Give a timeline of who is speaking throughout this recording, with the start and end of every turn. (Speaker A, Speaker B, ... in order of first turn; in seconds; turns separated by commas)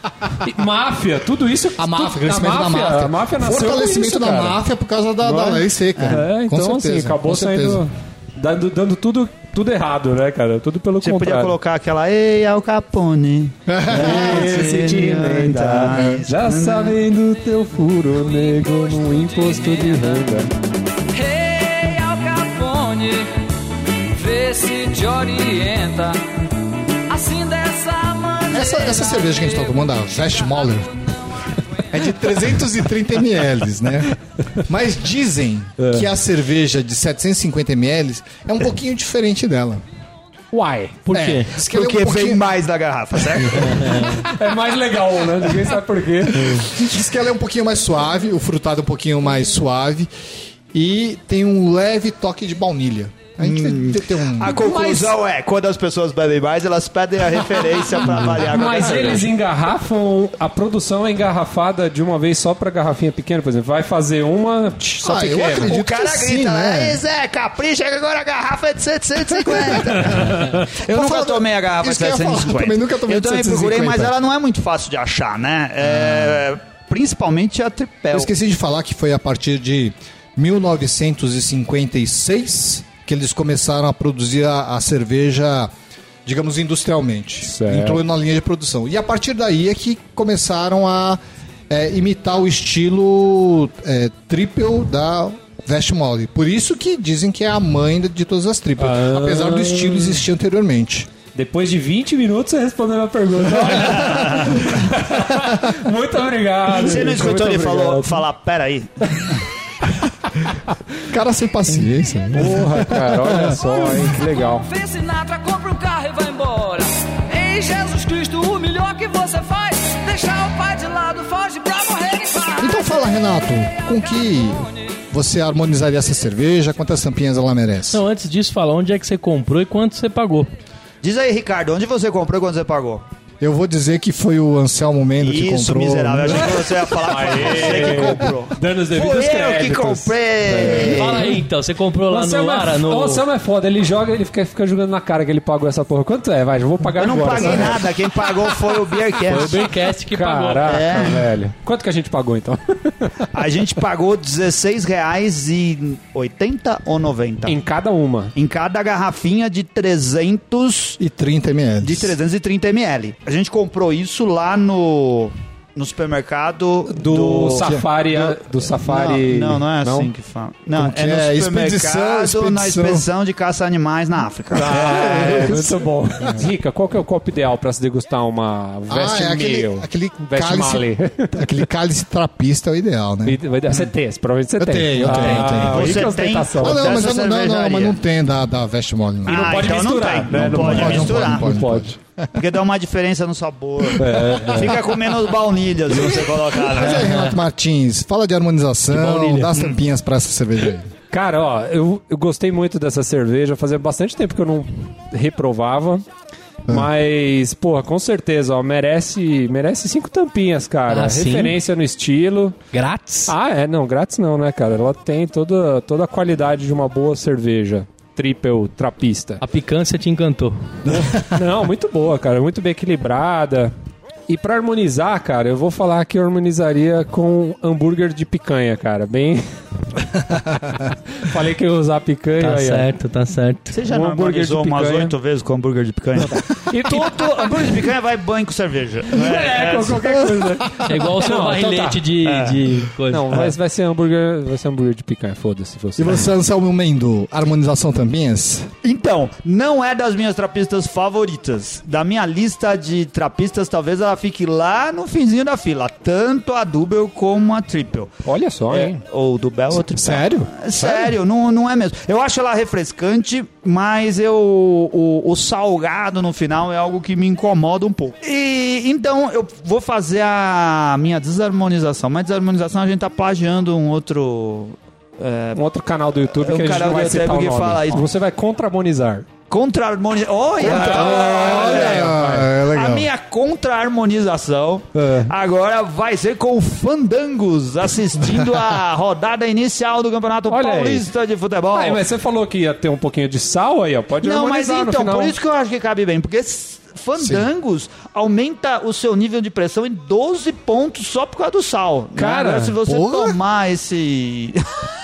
Speaker A: 0.4-4.6, Speaker B: 1.8-7.8, Speaker A: 5.2-11.6, Speaker C: 11.0-17.0, Speaker B: 13.7-14.6, Speaker A: 13.9-20.5, Speaker B: 15.9-16.2, Speaker D: 18.1-20.2, Speaker D: 21.1-23.3, Speaker D: 24.1-26.2, Speaker D: 27.1-30.9, Speaker B: 28.5-30.9, Speaker B: 31.9-39.8, Speaker A: 35.8-36.1, Speaker A: 40.5-41.0, Speaker E: 41.1-41.5, Speaker B: 41.1-42.5, Speaker C: 41.6-44.1, Speaker B: 43.5-44.0, Speaker A: 44.1-46.7, Speaker B: 46.4-50.1, Speaker B: 50.7-54.7, Speaker C: 53.4-59.3, Speaker A: 54.6-55.1, Speaker A: 58.3-65.7, Speaker B: 65.0-67.0, Speaker C: 65.6-78.3, Speaker B: 69.4-74.1, Speaker B: 75.9-76.3, Speaker B: 78.1-85.7, Speaker B: 86.3-101.1, Speaker A: 87.5-88.0, Speaker A: 98.8-100.2, Speaker A: 101.3-108.2, Speaker C: 104.0-104.5, Speaker C: 106.8-109.4, Speaker B: 111.0-113.6, Speaker A: 112.3-114.7, Speaker D: 114.2-124.8, Speaker B: 122.6-128.0, Speaker E: 127.9-130.5, Speaker C: 131.0-133.0, Speaker B: 133.4-136.8, Speaker C: 135.2-141.3, Speaker A: 137.0-141.4, Speaker E: 140.7-143.2, Speaker A: 142.1-148.4, Speaker C: 147.0-149.7, Speaker B: 147.4-147.8, Speaker E: 149.2-151.2, Speaker A: 150.1-153.3, Speaker C: 150.7-151.3, Speaker C: 153.3-157.6, Speaker A: 157.5-158.3, Speaker C: 158.3-161.0, Speaker B: 161.0-162.2, Speaker C: 161.8-175.6, Speaker A: 166.9-170.1, Speaker B: 167.6-167.9, Speaker B: 170.8-173.1, Speaker A: 174.5-181.6, Speaker B: 174.6-176.4, Speaker B: 178.9-183.4, Speaker A: 183.2-187.1, Speaker B: 184.6-189.8, Speaker C: 185.1-188.0, Speaker C: 189.2-191.7, Speaker A: 189.2-192.0, Speaker B: 190.3-192.4, Speaker C: 192.4-197.2, Speaker A: 194.0-194.9, Speaker B: 195.9-200.9, Speaker E: 198.9-199.7, Speaker A: 201.1-206.0, Speaker A: 206.7-212.6, Speaker E: 210.9-211.6, Speaker E: 212.7-213.3, Speaker A: 213.3-219.4, Speaker E: 219.4-220.8, Speaker B: 220.8-221.4, Speaker A: 220.9-223.7, Speaker A: 224.3-229.5, Speaker A: 230.1-232.9, Speaker E: 232.4-233.7, Speaker C: 233.7-240.3, Speaker A: 233.9-235.1, Speaker A: 236.2-237.6, Speaker A: 239.1-242.0, Speaker E: 240.9-243.5, Speaker C: 242.2-242.6, Speaker A: 243.1-246.3, Speaker B: 246.0-248.7, Speaker C: 248.8-258.1, Speaker A: 258.2-259.0, Speaker C: 258.7-275.6, Speaker B: 259.9-261.1, Speaker A: 275.5-279.3, Speaker C: 276.4-278.1, Speaker C: 279.5-292.0, Speaker A: 280.6-282.5, Speaker B: 280.6-283.1, Speaker A: 284.9-285.3, Speaker A: 290.5-291.1, Speaker A: 291.7-295.4, Speaker C: 294.2-304.6, Speaker B: 297.2-297.5, Speaker A: 302.2-302.8, Speaker B: 302.9-303.4